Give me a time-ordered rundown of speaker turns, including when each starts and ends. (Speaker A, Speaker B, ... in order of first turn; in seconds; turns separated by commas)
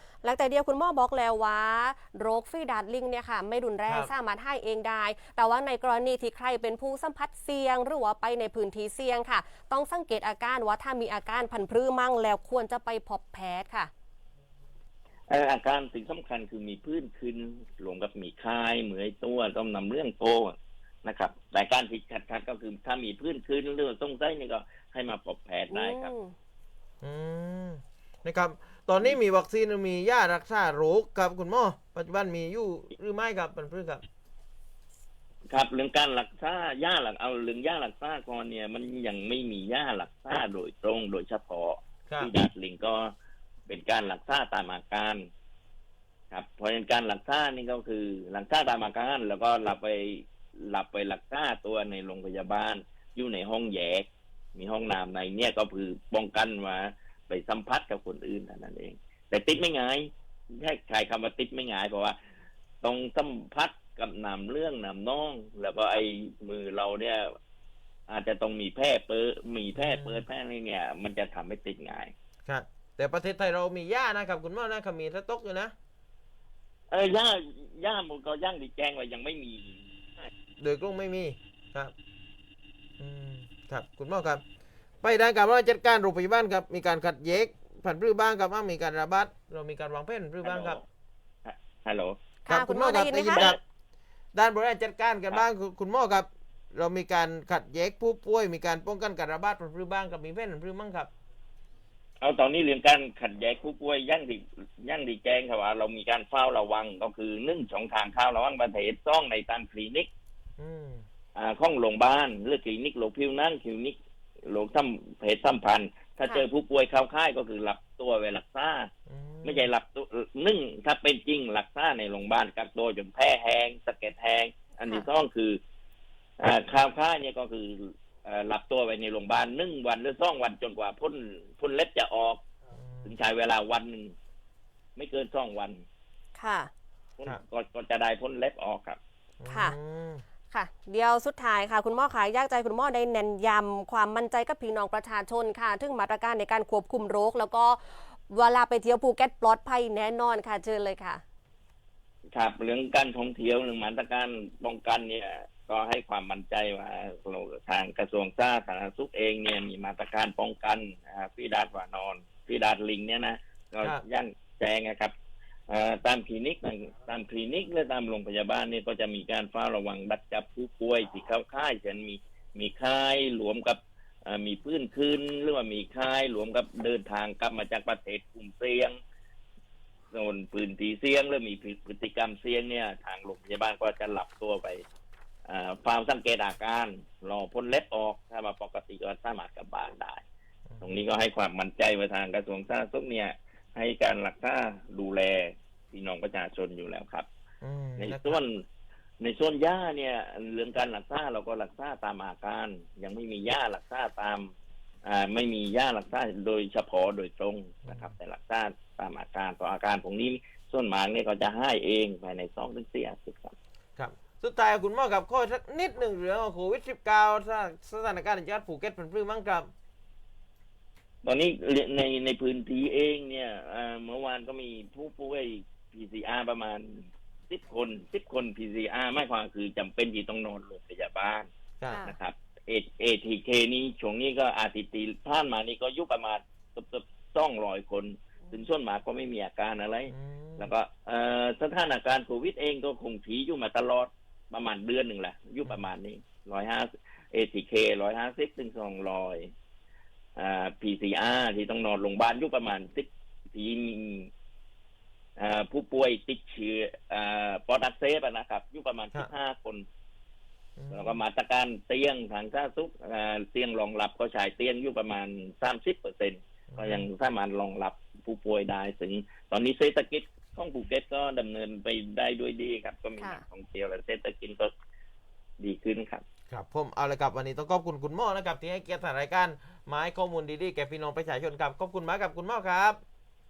Speaker A: 0.2-13.9, Speaker B: 15.3-26.1, Speaker A: 25.7-26.4, Speaker C: 27.0-34.0, Speaker B: 35.5-43.1, Speaker B: 43.7-45.3, Speaker B: 46.3-62.2, Speaker B: 62.8-67.3, Speaker B: 68.1-72.1, Speaker C: 69.8-70.2, Speaker C: 72.5-75.7, Speaker B: 76.9-80.3, Speaker C: 80.6-81.9, Speaker C: 83.0-84.4, Speaker C: 85.0-90.8, Speaker B: 90.4-90.8, Speaker B: 91.5-92.2, Speaker A: 92.5-93.5, Speaker C: 92.5-93.6, Speaker B: 93.3-93.6, Speaker C: 94.3-101.1, Speaker B: 102.2-110.1, Speaker C: 110.6-111.0, Speaker B: 111.3-118.9, Speaker C: 119.1-119.7, Speaker B: 119.4-125.6, Speaker B: 126.4-132.4, Speaker C: 132.7-133.1, Speaker B: 133.0-134.2, Speaker B: 135.0-135.8, Speaker A: 136.4-136.7, Speaker B: 137.2-139.0, Speaker C: 139.4-140.2, Speaker A: 139.5-139.8, Speaker A: 140.5-151.2, Speaker B: 152.3-165.1, Speaker B: 165.7-179.0, Speaker B: 180.1-184.8, Speaker B: 185.5-190.2, Speaker C: 190.7-191.0, Speaker B: 190.8-197.3, Speaker C: 197.6-198.4, Speaker B: 198.0-198.7, Speaker B: 199.2-204.5, Speaker B: 205.0-213.6, Speaker C: 207.9-208.1, Speaker C: 214.0-219.7, Speaker B: 221.2-231.5, Speaker A: 231.9-232.2, Speaker B: 232.0-249.5, Speaker C: 240.1-240.7, Speaker B: 250.4-254.3, Speaker B: 255.4-259.9, Speaker C: 260.8-261.2, Speaker B: 260.9-274.7, Speaker C: 266.7-267.1, Speaker A: 273.2-273.4, Speaker B: 275.6-276.2, Speaker C: 276.5-283.0